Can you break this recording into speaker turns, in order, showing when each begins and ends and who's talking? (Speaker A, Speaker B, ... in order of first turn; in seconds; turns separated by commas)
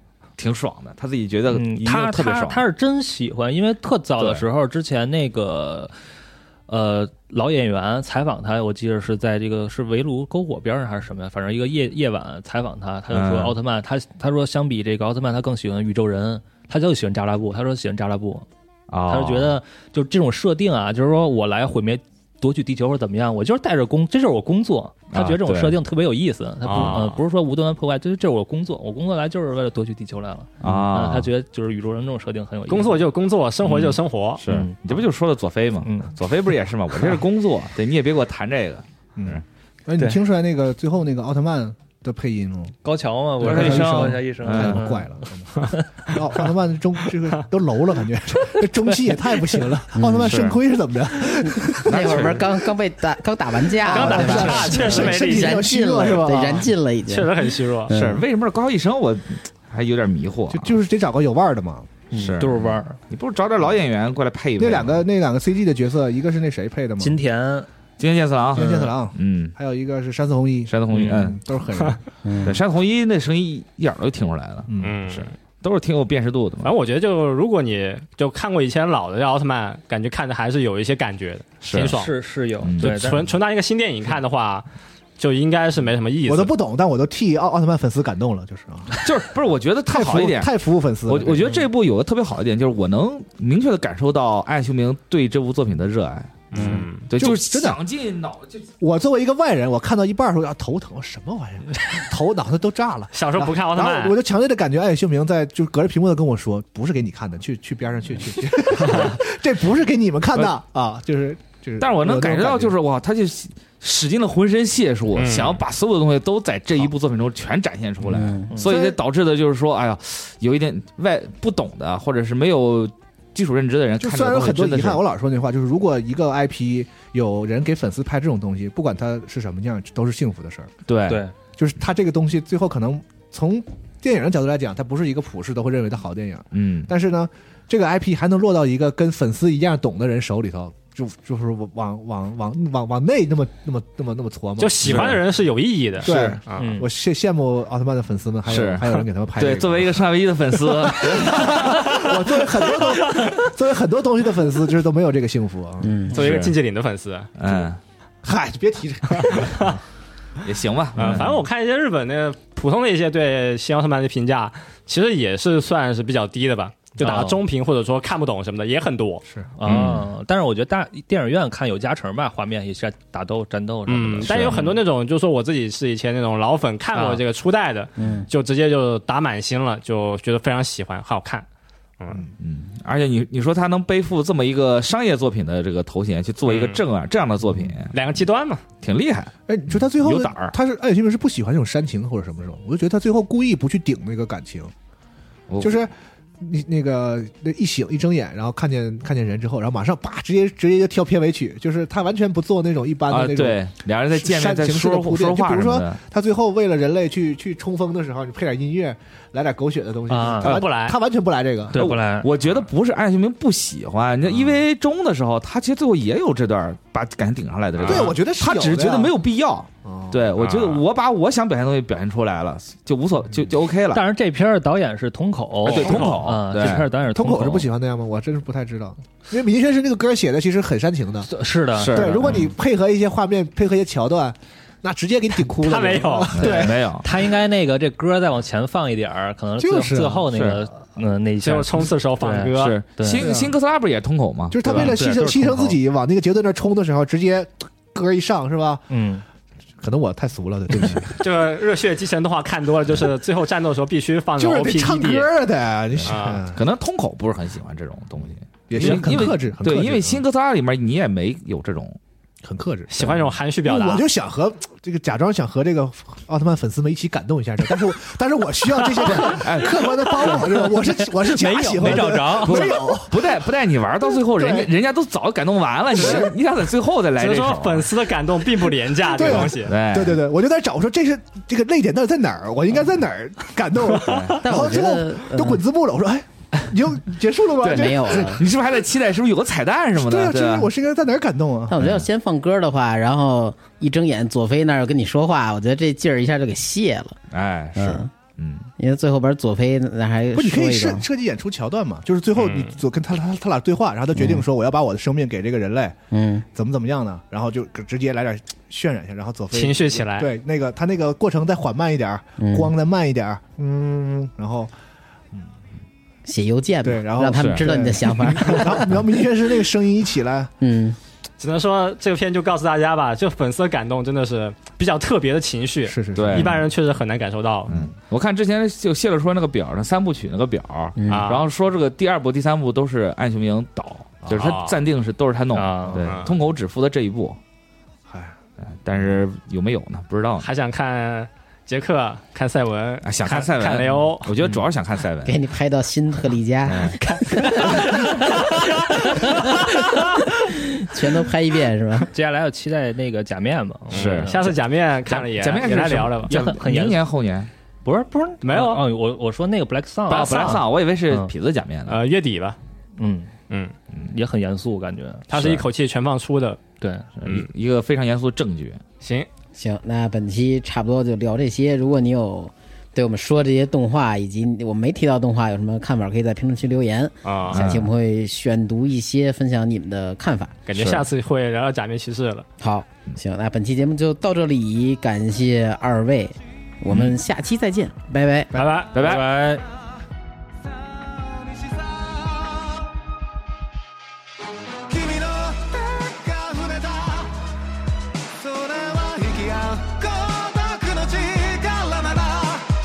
Speaker A: 0.4-2.6, Speaker B: 1.5-5.9, Speaker A: 4.2-4.4, Speaker B: 6.7-18.4, Speaker A: 13.1-13.6, Speaker A: 18.9-19.6, Speaker B: 19.1-33.1, Speaker A: 25.1-25.8, Speaker C: 26.6-27.2, Speaker A: 30.6-31.3, Speaker C: 32.7-34.4, Speaker A: 33.6-39.4, Speaker B: 34.5-35.0, Speaker B: 35.8-36.2, Speaker D: 39.1-42.7, Speaker B: 42.8-46.1, Speaker D: 43.4-52.3, Speaker A: 43.4-44.8, Speaker E: 49.9-50.5, Speaker A: 50.2-50.6, Speaker E: 51.4-58.2, Speaker A: 51.9-52.5, Speaker C: 53.9-55.6, Speaker D: 53.9-56.7, Speaker B: 54.2-54.7, Speaker C: 57.1-57.9, Speaker A: 57.9-60.7, Speaker D: 60.5-62.1, Speaker A: 62.1-65.0, Speaker B: 62.2-63.0, Speaker D: 64.6-67.2, Speaker B: 67.0-67.7, Speaker A: 68.0-69.5, Speaker D: 68.5-72.0, Speaker A: 70.7-71.4, Speaker E: 72.2-72.6, Speaker A: 72.4-76.7, Speaker D: 74.7-75.0, Speaker C: 74.8-75.3, Speaker C: 76.6-82.1, Speaker A: 81.6-82.0, Speaker B: 81.8-83.3, Speaker A: 82.6-83.1, Speaker C: 82.8-84.7, Speaker C: 85.2-86.5, Speaker D: 86.2-89.0, Speaker A: 89.0-90.5, Speaker D: 89.8-91.5, Speaker A: 91.1-98.7, Speaker B: 91.4-91.7, Speaker C: 96.5-97.1, Speaker D: 96.5-97.8, Speaker D: 98.8-112.8, Speaker C: 103.1-104.2, Speaker C: 108.8-109.1, Speaker A: 111.8-125.0, Speaker C: 115.2-115.6, Speaker E: 118.1-118.5, Speaker D: 118.6-119.0, Speaker D: 124.0-130.7, Speaker A: 130.8-131.2, Speaker B: 131.1-131.3, Speaker D: 131.6-145.2, Speaker A: 136.5-136.9, Speaker C: 144.6-146.7, Speaker A: 144.8-145.2, Speaker D: 146.0-150.1, Speaker A: 146.1-146.4, Speaker B: 146.6-146.9, Speaker A: 148.4-152.7, Speaker D: 150.7-156.1, Speaker E: 155.8-156.2, Speaker A: 156.1-156.6, Speaker C: 156.1-157.3, Speaker A: 157.4-157.8, Speaker D: 158.2-159.8, Speaker C: 159.1-159.7, Speaker A: 160.4-161.4, Speaker C: 160.9-169.2, Speaker B: 167.0-167.4, Speaker D: 169.2-169.5, Speaker B: 169.6-174.6, Speaker A: 169.7-170.1, Speaker C: 173.9-181.4, Speaker A: 174.2-174.7, Speaker B: 176.9-177.2, Speaker E: 178.0-178.3, Speaker A: 182.4-187.9, Speaker C: 186.4-186.8, Speaker C: 187.9-188.6, Speaker A: 188.8-190.5, Speaker D: 189.5-194.7, Speaker A: 195.5-195.8, Speaker D: 195.6-203.6, Speaker A: 203.1-206.0, Speaker D: 204.1-212.0, Speaker B: 210.1-210.6, Speaker C: 210.4-211.0, Speaker B: 211.7-212.3, Speaker A: 211.8-224.0, Speaker D: 214.2-214.6, Speaker C: 217.8-218.1, Speaker D: 217.8-219.1, Speaker D: 219.8-220.3, Speaker C: 220.4-220.8, Speaker B: 223.9-227.7, Speaker A: 225.6-226.9, Speaker C: 225.6-226.2, Speaker D: 227.1-231.3, Speaker B: 231.3-232.5, Speaker A: 231.7-232.5, Speaker D: 231.9-236.8, Speaker C: 235.6-236.7, Speaker A: 236.3-237.1, Speaker B: 237.0-243.3, Speaker D: 239.6-240.2, Speaker A: 240.3-240.6, Speaker C: 241.4-242.8, Speaker A: 242.5-244.9, Speaker D: 243.1-243.5, Speaker D: 244.5-248.8, Speaker B: 244.7-245.8, Speaker B: 248.9-249.2, Speaker D: 249.8-251.2, Speaker C: 251.2-255.3, Speaker D: 254.4-256.6, Speaker A: 256.0-262.0, Speaker C: 256.0-256.4, Speaker D: 258.7-260.2, Speaker C: 258.8-259.0, Speaker D: 262.4-273.3, Speaker C: 262.9-264.1, Speaker A: 269.0-270.4, Speaker B: 270.3-272.8, Speaker A: 271.8-277.9, Speaker D: 274.3-274.7, Speaker D: 275.9-276.3, Speaker C: 277.2-279.7, Speaker D: 279.1-288.4, Speaker A: 279.2-280.3, Speaker A: 284.0-284.4, Speaker E: 284.4-285.6, Speaker A: 287.6-290.7, Speaker E: 287.7-288.4, Speaker D: 289.9-291.8, Speaker E: 291.7-297.2, Speaker A: 291.8-292.1, Speaker A: 297.3-298.7, Speaker E: 297.7-298.1, Speaker E: 298.8-301.0, Speaker D: 300.3-305.9, Speaker C: 302.4-302.7, Speaker E: 304.1-304.4, Speaker E: 306.1-306.4, Speaker D: 306.5-314.7, Speaker C: 309.5-310.3, Speaker E: 312.4-312.7, Speaker E: 316.2-318.9, Speaker D: 316.8-320.5, Speaker A: 317.4-317.6, Speaker E: 320.6-321.0, Speaker C: 321.4-327.7, Speaker D: 325.9-326.6, Speaker A: 326.1-326.5, Speaker A: 327.7-337.4, Speaker E: 331.0-331.3, Speaker C: 331.1-331.4, Speaker C: 334.3-334.8, Speaker B: 335.5-336.1, Speaker C: 336.0-336.3, Speaker D: 338.1-338.4, Speaker A: 338.6-340.5, Speaker C: 340.4-344.3, Speaker A: 343.0-345.4, Speaker B: 344.4-344.7, Speaker E: 345.2-352.1, Speaker A: 346.7-347.0, Speaker B: 352.1-354.5, Speaker C: 353.9-356.5, Speaker A: 353.9-354.5, Speaker A: 355.1-357.5, Speaker B: 356.3-357.0, Speaker B: 357.8-361.3, Speaker C: 358.4-358.8, Speaker A: 360.1-362.0, Speaker C: 360.1-360.6, Speaker C: 361.9-362.6, Speaker B: 363.0-363.3, Speaker C: 363.5-363.7, Speaker B: 364.1-365.4, Speaker C: 365.3-366.6, Speaker A: 365.3-365.6, Speaker B: 366.8-367.1, Speaker A: 367.2-368.8, Speaker C: 369.0-369.3, Speaker E: 369.5-380.6, Speaker C: 377.2-377.6, Speaker A: 377.5-377.9, Speaker C: 380.7-382.4, Speaker A: 380.7-381.1, Speaker E: 382.6-388.5, Speaker A: 386.9-387.1, Speaker C: 388.5-389.0, Speaker A: 388.9-389.4, Speaker B: 388.9-389.6, Speaker C: 400.8-401.6